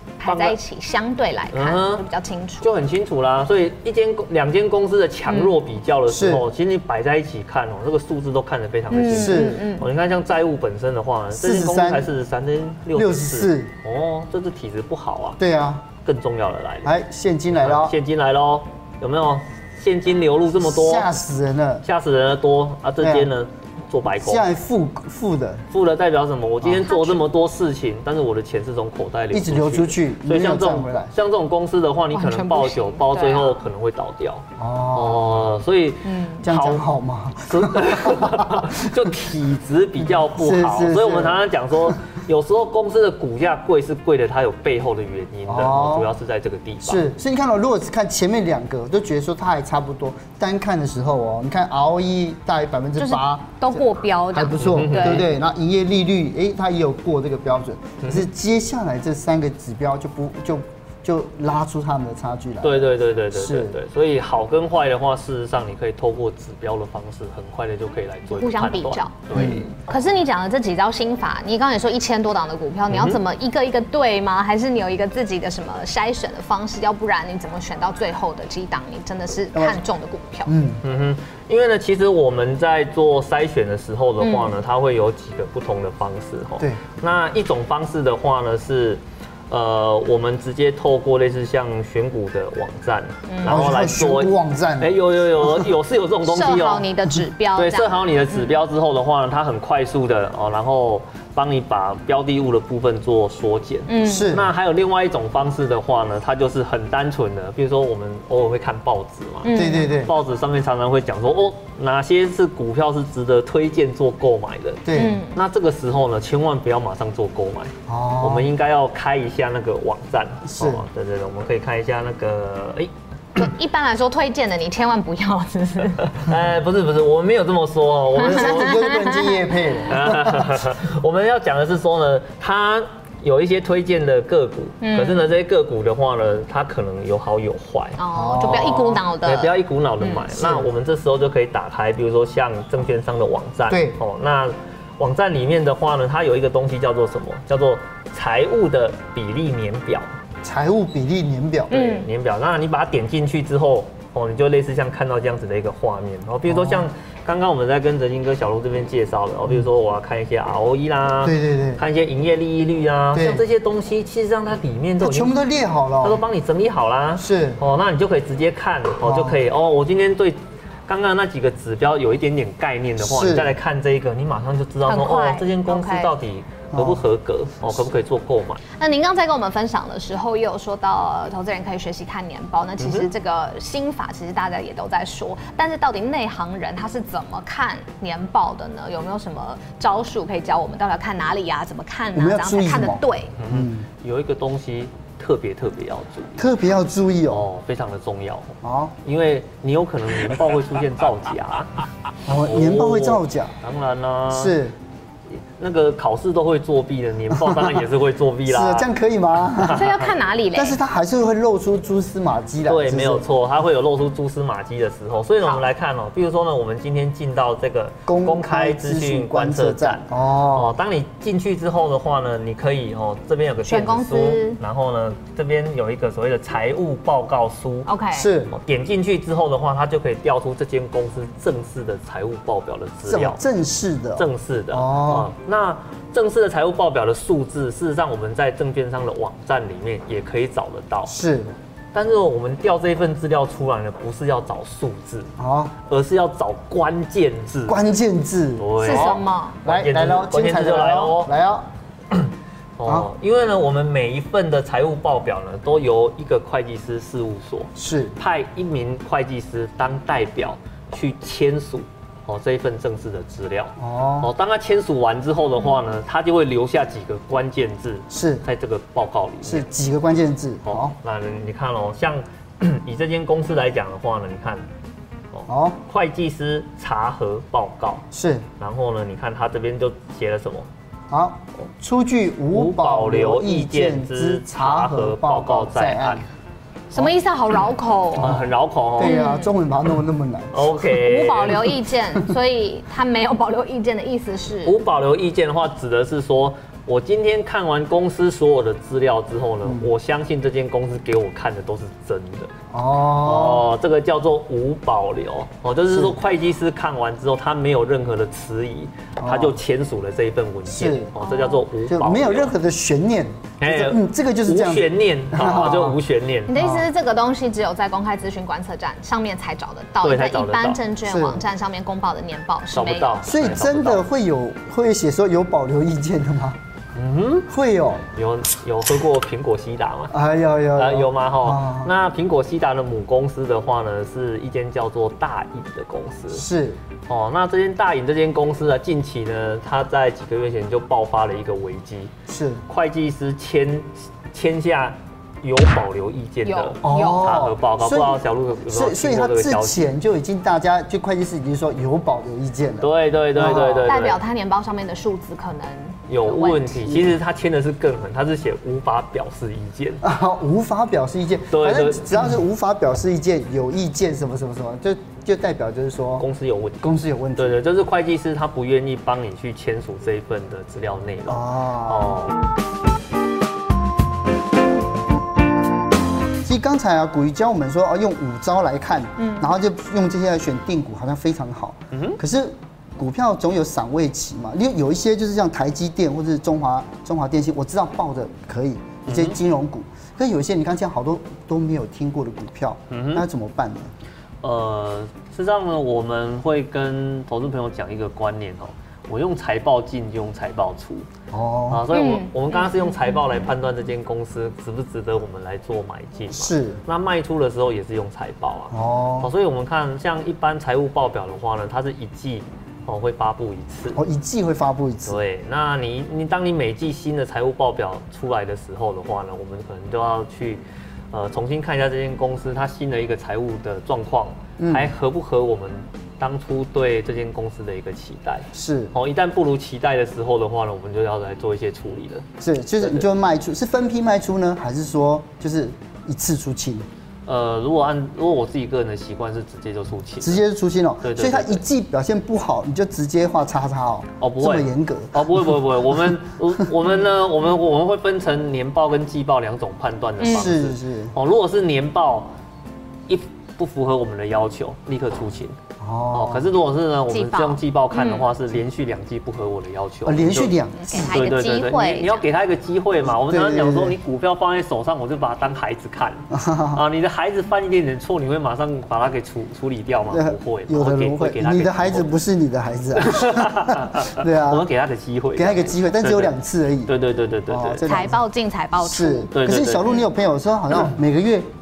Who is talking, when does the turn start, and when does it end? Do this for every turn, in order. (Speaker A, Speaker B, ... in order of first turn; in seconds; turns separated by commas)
Speaker A: 0.2-2.7, Speaker B: 0.2-0.6, Speaker B: 1.5-2.0, Speaker B: 2.6-15.4, Speaker A: 5.3-5.5, Speaker C: 6.1-6.4, Speaker A: 8.9-9.8, Speaker C: 9.1-9.6, Speaker C: 11.3-12.1, Speaker C: 12.9-13.7, Speaker C: 15.4-15.8, Speaker B: 16.0-16.9, Speaker C: 16.8-17.9, Speaker B: 17.6-21.1, Speaker C: 20.6-21.8, Speaker B: 21.8-24.5, Speaker C: 23.0-23.3, Speaker C: 24.2-25.7, Speaker B: 25.7-36.8, Speaker A: 26.9-27.2, Speaker C: 29.3-31.1, Speaker A: 32.1-33.6, Speaker C: 34.6-35.5, Speaker A: 36.0-36.4, Speaker C: 36.4-39.1, Speaker B: 37.4-47.0, Speaker C: 40.0-42.0, Speaker C: 45.5-46.1, Speaker C: 46.8-63.8, Speaker A: 53.0-55.3, Speaker B: 54.6-55.3, Speaker B: 58.0-58.3, Speaker B: 62.6-69.8, Speaker A: 68.3-80.5, Speaker C: 69.3-69.7, Speaker B: 72.9-73.2, Speaker C: 79.5-79.8, Speaker C: 80.5-80.8, Speaker B: 80.8-96.8, Speaker A: 84.2-84.6, Speaker A: 93.3-93.7, Speaker C: 93.4-95.7, Speaker A: 96.2-98.5, Speaker B: 97.5-122.9, Speaker A: 103.9-104.3, Speaker C: 104.0-104.5, Speaker A: 109.4-110.0, Speaker C: 109.5-110.1, Speaker C: 114.8-115.2, Speaker A: 114.9-115.4, Speaker C: 117.9-118.5, Speaker C: 120.4-120.8, Speaker A: 123.3-126.2, Speaker B: 126.0-128.9, Speaker C: 128.2-130.7, Speaker A: 128.2-129.4, Speaker B: 129.9-150.1, Speaker A: 134.8-135.2, Speaker A: 138.0-140.3, Speaker C: 138.1-138.9, Speaker C: 143.7-144.0, Speaker C: 150.4-151.8, Speaker B: 151.7-165.3, Speaker A: 151.7-152.1, Speaker C: 156.5-156.9, Speaker C: 161.2-161.8, Speaker C: 163.1-163.4, Speaker C: 165.0-166.2, Speaker B: 166.0-178.6, Speaker C: 167.2-167.6, Speaker C: 169.0-169.4, Speaker C: 173.0-173.5, Speaker A: 174.8-176.1, Speaker C: 176.7-177.0, Speaker A: 178.8-193.3, Speaker B: 182.8-183.1, Speaker C: 192.1-193.8, Speaker B: 193.4-196.5, Speaker C: 196.4-197.4, Speaker B: 197.3-201.7, Speaker C: 198.6-198.9, Speaker C: 202.2-203.5, Speaker B: 202.4-204.6, Speaker C: 204.3-204.7, Speaker B: 205.3-208.9, Speaker C: 207.3-207.8, Speaker C: 208.4-209.9, Speaker B: 209.6-209.9, Speaker A: 209.6-210.8, Speaker C: 210.5-213.2, Speaker B: 212.7-227.9, Speaker C: 218.1-220.8, Speaker A: 223.6-224.6, Speaker A: 227.8-228.3, Speaker C: 228.1-228.5, Speaker B: 228.5-233.4, Speaker C: 233.1-235.3, Speaker B: 234.2-241.1, Speaker C: 241.1-241.5, Speaker B: 241.9-245.3, Speaker C: 245.4-245.7, Speaker B: 245.8-247.8, Speaker C: 247.7-251.7, Speaker B: 248.6-251.3, Speaker A: 248.8-249.6, Speaker B: 252.1-269.6, Speaker C: 257.8-258.2, Speaker C: 263.8-264.3, Speaker C: 268.1-268.4, Speaker C: 269.4-270.9, Speaker B: 270.6-274.6, Speaker B: 275.3-278.1, Speaker C: 275.5-275.8, Speaker C: 278.1-278.4, Speaker B: 278.6-280.7, Speaker C: 281.1-286.2, Speaker B: 282.5-286.2, Speaker A: 286.9-288.4, Speaker B: 288.2-289.2, Speaker C: 288.2-288.4, Speaker C: 289.0-290.7, Speaker A: 289.0-289.5, Speaker B: 290.5-291.8, Speaker A: 290.8-294.8, Speaker B: 294.6-302.5, Speaker C: 299.6-299.9, Speaker C: 302.7-303.7, Speaker B: 303.2-312.5, Speaker C: 305.9-306.2, Speaker C: 309.2-309.6, Speaker C: 310.7-311.1, Speaker A: 311.2-311.6, Speaker C: 311.9-316.0, Speaker B: 313.6-316.6, Speaker A: 316.5-323.2, Speaker C: 316.5-316.9, Speaker B: 320.0-320.8, Speaker C: 321.1-321.4, Speaker B: 322.7-324.0, Speaker C: 323.2-326.6, Speaker B: 326.9-327.5, Speaker C: 327.5-328.0, Speaker B: 328.1-330.1, Speaker C: 330.1-331.9, Speaker B: 330.8-336.4, Speaker C: 336.3-336.8, Speaker B: 337.1-342.1, Speaker C: 342.3-342.6, Speaker B: 342.7-349.9, Speaker A: 346.4-347.3, Speaker C: 346.8-353.9, Speaker B: 352.8-354.2, Speaker A: 353.4-357.0, Speaker B: 356.1-360.0, Speaker C: 360.0-366.2, Speaker B: 361.5-362.3, Speaker B: 366.2-372.4, Speaker C: 366.8-367.6, Speaker C: 371.3-372.2, Speaker C: 376.4-393.9, Speaker A: 379.2-379.5, Speaker B: 381.9-382.2, Speaker B: 389.1-389.4, Speaker B: 392.9-393.2, Speaker B: 394.4-401.1, Speaker C: 401.3-401.9, Speaker B: 401.7-414.0, Speaker A: 401.9-403.4, Speaker C: 406.3-406.8, Speaker C: 408.7-409.3, Speaker C: 413.9-415.2, Speaker B: 415.1-432.3, Speaker C: 424.6-424.9, Speaker C: 428.5-428.9, Speaker C: 432.4-436.9, Speaker B: 432.8-433.1, Speaker B: 437.2-440.4, Speaker C: 440.2-446.6, Speaker B: 441.0-441.6, Speaker B: 444.2-452.3, Speaker A: 450.2-450.5, Speaker C: 450.3-451.1, Speaker B: 453.1-455.6, Speaker C: 455.8-456.5, Speaker B: 456.1-472.1, Speaker A: 457.1-458.3, Speaker C: 460.0-461.2, Speaker A: 460.8-462.2, Speaker C: 463.1-464.0, Speaker C: 466.3-466.8, Speaker C: 470.1-474.7, Speaker B: 472.9-476.3, Speaker C: 475.4-476.9, Speaker B: 476.9-477.9, Speaker C: 477.5-478.2, Speaker A: 477.9-479.3, Speaker C: 478.8-481.5, Speaker B: 479.3-480.0